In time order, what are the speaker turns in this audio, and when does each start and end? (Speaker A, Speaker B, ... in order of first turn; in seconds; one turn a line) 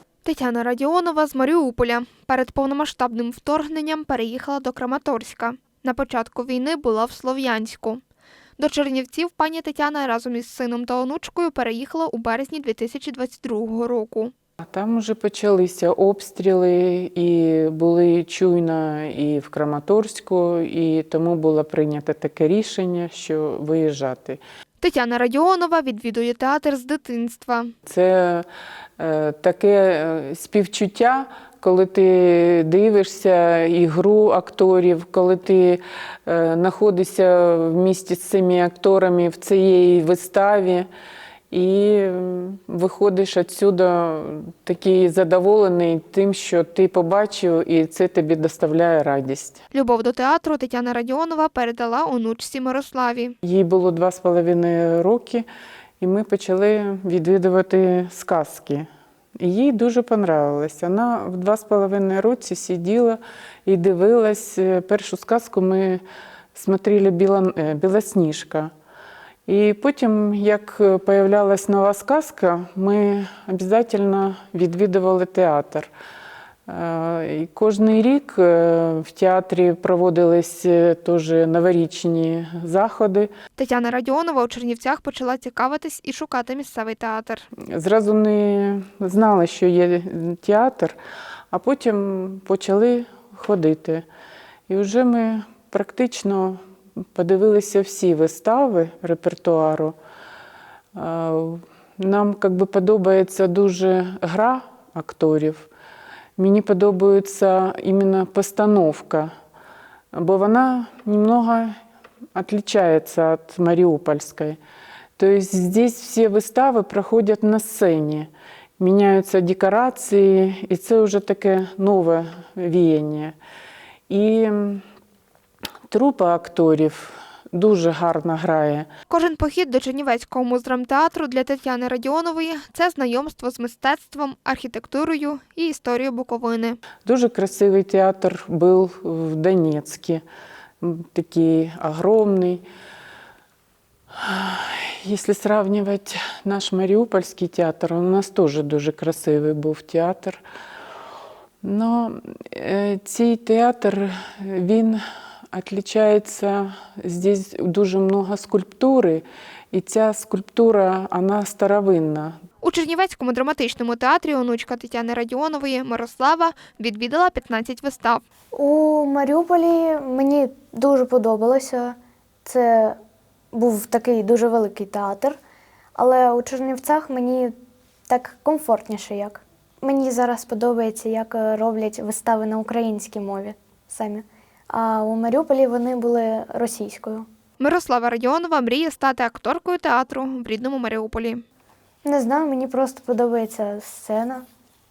Speaker A: 0.2-8.0
Speaker A: 8.6-14.3
Speaker B: 14.6-24.4
Speaker A: 24.8-27.7
Speaker B: 27.9-28.4
Speaker B: 29.0-40.9
Speaker B: 41.5-49.6
Speaker A: 49.7-53.3
Speaker B: 53.4-55.5
Speaker B: 56.0-58.9
Speaker B: 59.4-66.0
Speaker B: 66.5-68.7
Speaker B: 69.5-75.9
Speaker B: 76.7-83.3
Speaker A: 83.6-87.5
Speaker B: 87.7-91.0
Speaker B: 91.5-94.0
Speaker B: 94.7-96.6
Speaker B: 97.1-100.0
Speaker B: 100.9-105.7
Speaker B: 106.4-109.3
Speaker B: 110.1-111.8
Speaker B: 112.3-114.6
Speaker B: 115.2-123.3
Speaker B: 124.1-124.8
Speaker B: 125.9-128.9
Speaker A: 129.1-136.8
Speaker B: 137.0-140.2
Speaker B: 140.8-142.6
Speaker B: 144.2-150.4
Speaker B: 151.6-162.4
Speaker A: 162.6-168.2
Speaker C: 168.5-173.0
Speaker C: 173.5-175.4
Speaker C: 175.9-177.5
Speaker C: 178.1-187.3
Speaker A: 187.6-191.4
Speaker C: 192.0-194.4